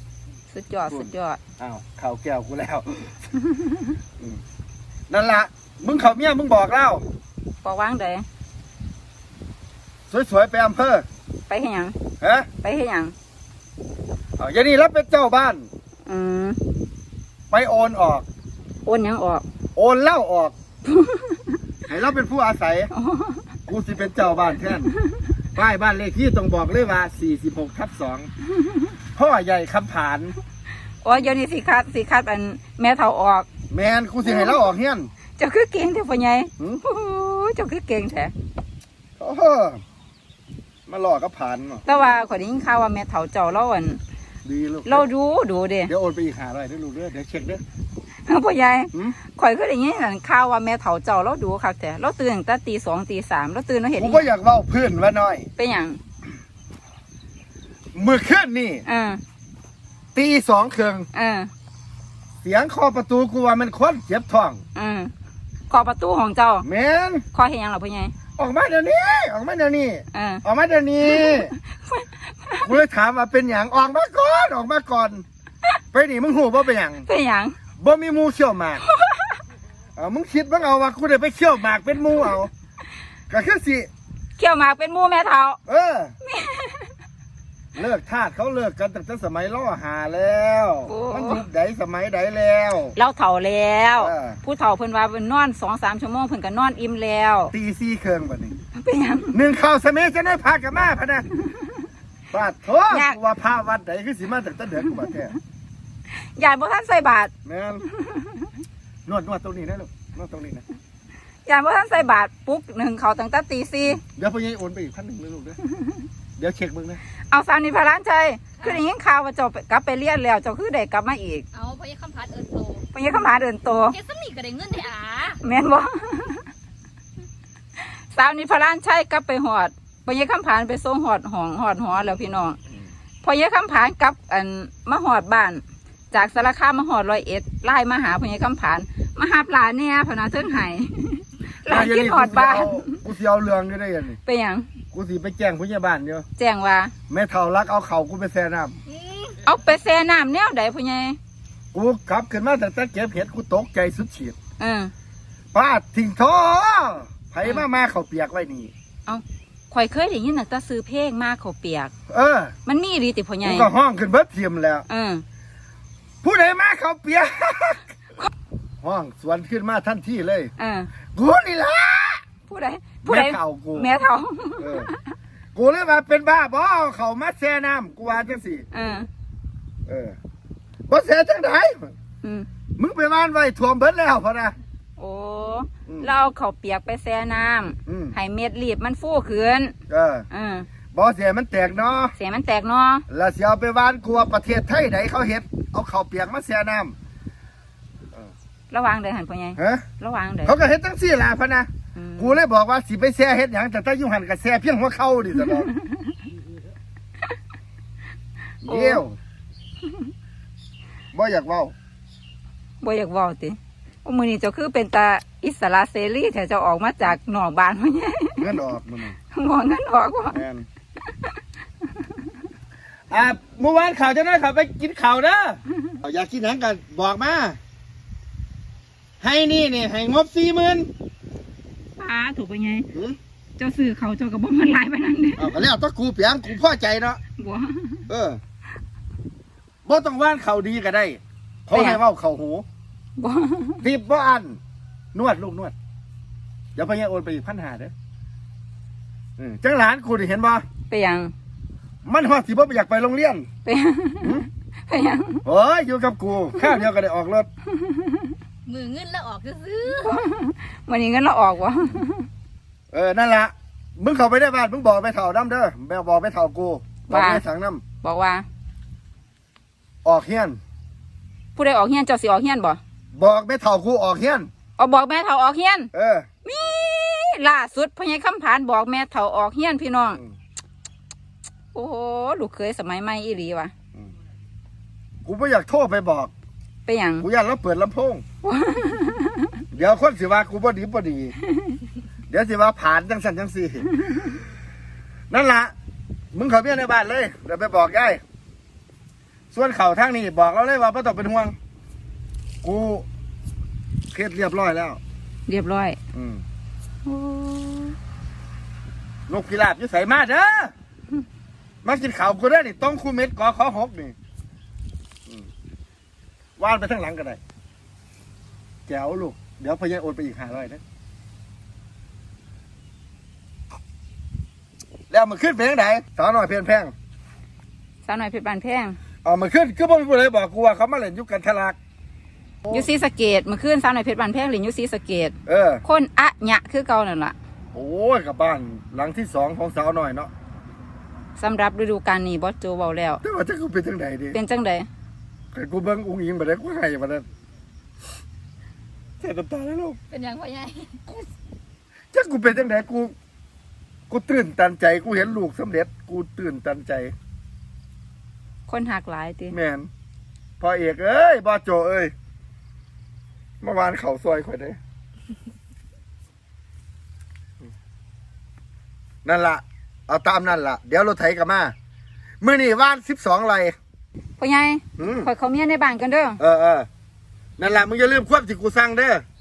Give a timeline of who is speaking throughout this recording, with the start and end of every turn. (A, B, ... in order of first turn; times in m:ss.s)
0:00.5-0:01.4 A
0:00.9-0:03.2 B
0:03.5-0:04.0 A
0:05.1-0:07.0 B
0:07.6-0:08.2 A
0:10.1-0:11.1 B
0:11.5-0:12.0 A
0:12.2-0:12.5 B
0:12.6-0:13.1 A
0:14.4-0:15.7 B
0:16.1-0:16.6 A
0:17.5-0:18.3 B
0:18.8-0:19.4 A
0:19.8-0:20.6 B
0:20.9-0:21.6 A
0:21.9-0:22.9 B
0:22.9-0:23.4 A
0:23.7-0:24.9 B
0:25.6-0:28.3 B
0:28.6-0:28.9 A
0:29.2-0:30.4 B
0:31.0-0:33.5 A
0:33.7-0:35.1 B
0:34.2-0:34.7 A
0:35.4-0:38.3 A
0:39.2-0:39.8 B
0:40.9-0:41.8 B
0:41.8-0:44.0 A
0:44.4-0:45.1 B
0:44.9-0:45.9 A
0:45.9-0:47.6 B
0:48.3-0:54.3 A
0:54.0-0:55.5 B
0:55.6-0:56.0 A
0:57.9-0:58.8 B
0:58.9-0:59.2 A
1:00.2-1:01.1 B
1:01.1-1:01.5 A
1:02.4-1:04.6 B
1:04.8-1:05.1 A
1:05.7-1:06.7 A
1:06.6-1:07.2 B
1:07.3-1:08.1 A
1:08.4-1:11.5 B
1:10.1-1:10.4 A
1:11.0-1:12.7 A
1:12.6-1:15.2 B
1:15.9-1:17.1 B
1:17.1-1:17.6 A
1:17.8-1:18.8 B
1:18.8-1:19.4 A
1:20.0-1:22.5 B
1:23.3-1:23.9 B
1:24.4-1:25.6 A
1:25.7-1:26.2 B
1:26.2-1:26.9 A
1:27.8-1:33.0 B
1:30.9-1:31.4 A
1:33.0-1:37.5 A
1:34.0-1:34.4 B
1:37.5-1:38.6 B
1:38.7-1:39.4 A
1:39.3-1:41.3 B
1:42.3-1:45.4 B
1:42.9-1:43.2 A
1:46.2-1:47.3 A
1:47.4-1:47.8 B
1:47.9-1:48.6 A
1:49.1-1:50.6 B
1:51.5-1:54.0 A
1:53.8-1:55.6 B
1:55.7-1:56.0 A
1:56.4-1:57.0 B
1:57.3-2:01.5 A
2:01.5-2:02.9 C
2:02.9-2:04.0 A
2:03.9-2:05.4 C
2:05.4-2:06.5 A
2:07.8-2:12.6 A
2:13.2-2:23.0 A
2:21.7-2:24.2 B
2:24.3-2:24.7 A
2:24.9-2:26.2 B
2:26.4-2:26.9 A
2:27.1-2:28.8 B
2:28.9-2:29.4 C
2:29.4-2:31.2 A
2:31.7-2:34.4 B
2:34.6-2:34.9 A
2:35.5-2:38.7 B
2:39.1-2:41.9 A
2:42.1-2:42.6 B
2:42.7-2:43.7 A
2:43.4-2:44.8 B
2:44.9-2:45.2 A
2:46.2-2:47.9 B
2:48.8-2:50.5 B
2:50.6-2:50.9 A
2:51.1-2:52.2 B
2:52.5-2:55.1 A
2:53.0-2:53.9 B
2:54.6-2:54.9 B
2:55.6-2:58.7 B
2:58.7-2:59.1 A
2:59.9-3:00.2 B
3:00.9-3:01.9 B
3:02.2-3:02.5 A
3:02.8-3:04.5 B
3:05.0-3:09.8 A
3:07.9-3:08.2 B
3:09.9-3:10.3 B
3:10.3-3:10.7 A
3:10.9-3:12.1 B
3:12.2-3:13.1 A
3:13.1-3:16.9 B
3:18.7-3:20.6 A
3:19.6-3:19.8 B
3:20.5-3:25.7 B
3:22.0-3:22.4 A
3:25.4-3:26.2 A
3:28.6-3:29.2 B
3:28.7-3:29.0 A
3:31.1-3:31.7 B
3:32.8-3:38.5 A
3:38.4-3:39.2 B
3:39.3-3:40.4 A
3:40.3-3:40.7 B
3:41.1-3:41.4 A
3:41.9-3:42.3 A
3:43.1-3:47.6 B
3:49.2-3:50.9 B
3:52.0-3:52.9 A
3:53.6-3:55.6 A
3:55.4-3:57.2 B
3:57.4-3:58.1 A
3:58.1-3:58.4 B
3:59.9-4:02.6 B
4:01.7-4:02.0 A
4:03.2-4:03.8 A
4:03.8-4:04.6 B
4:05.1-4:05.7 B
4:06.8-4:07.9 B
4:09.4-4:10.6 B
4:10.9-4:11.3 A
4:12.0-4:13.5 B
4:13.6-4:15.4 A
4:15.4-4:17.5 B
4:16.6-4:16.9 A
4:17.7-4:18.4 A
4:18.7-4:20.2 C
4:20.0-4:22.3 A
4:22.9-4:27.8 B
4:27.1-4:27.4 A
4:28.0-4:28.5 A
4:30.0-4:30.6 B
4:31.6-4:32.8 A
4:33.1-4:34.5 B
4:34.8-4:35.9 A
4:35.9-4:36.3 B
4:36.4-4:40.2 A
4:41.7-4:43.7 A
4:45.2-4:46.3 B
4:46.9-4:47.3 A
4:47.2-4:48.2 B
4:48.4-4:49.6 A
4:49.7-4:51.4 B
4:52.3-4:53.9 B
4:55.3-4:55.7 B
4:56.3-4:58.2 B
4:59.5-5:01.6 B
5:02.6-5:03.1 B
5:04.1-5:05.0 B
5:05.5-5:06.0 A
5:06.1-5:06.4 B
5:07.1-5:08.0 A
5:09.3-5:10.7 B
5:11.8-5:14.2 B
5:16.6-5:17.4 B
5:18.9-5:20.8 B
5:25.1-5:26.9 B
5:28.1-5:29.0 A
5:29.2-5:31.8 B
5:32.7-5:37.4 A
5:35.5-5:35.8 B
5:37.7-5:40.3 B
5:41.4-5:43.2 A
5:43.2-5:44.4 B
5:44.3-5:44.9 A
5:45.5-5:47.2 B
5:49.2-5:50.0 B
5:50.1-5:51.0 C
5:52.1-5:53.1 B
5:54.1-5:57.1 B
5:58.7-5:59.6 A
5:59.5-5:59.9 B
6:00.6-6:02.1 B
6:03.6-6:04.8 B
6:09.2-6:11.7 B
6:12.4-6:13.8 B
6:14.4-6:16.4 A
6:15.0-6:15.3 B
6:16.4-6:16.9 B
6:17.6-6:19.2 B